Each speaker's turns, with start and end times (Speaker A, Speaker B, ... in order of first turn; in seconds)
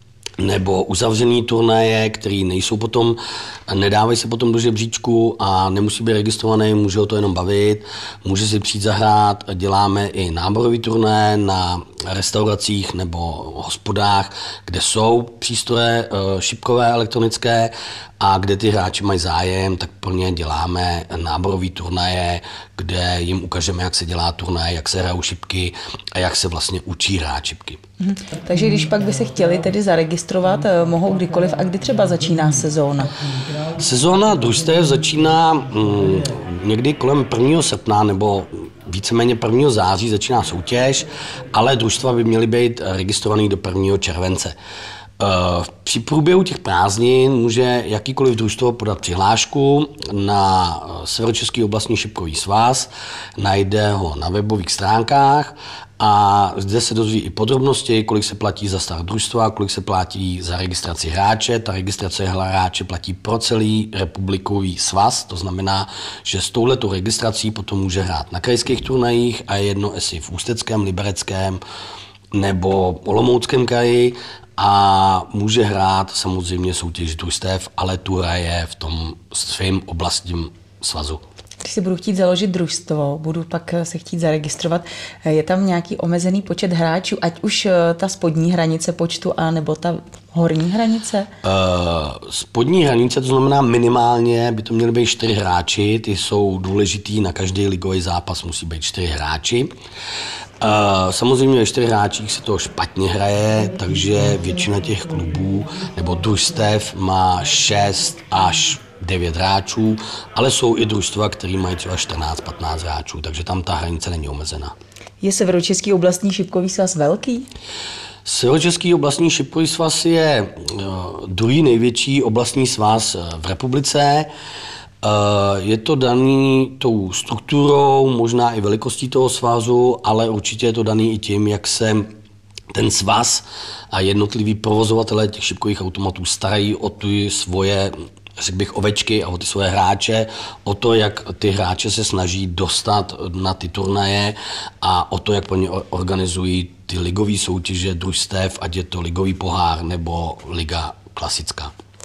Speaker A: 0.4-27.8, 33.8-44.6, 45.2-71.6, 72.3-81.2, 91.4-99.7, 100.6-114.7, 118.3-124.3, 125.0-132.1, 132.7-151.7
Speaker B: 28.0-33.1, 81.6-91.3, 115.2-117.5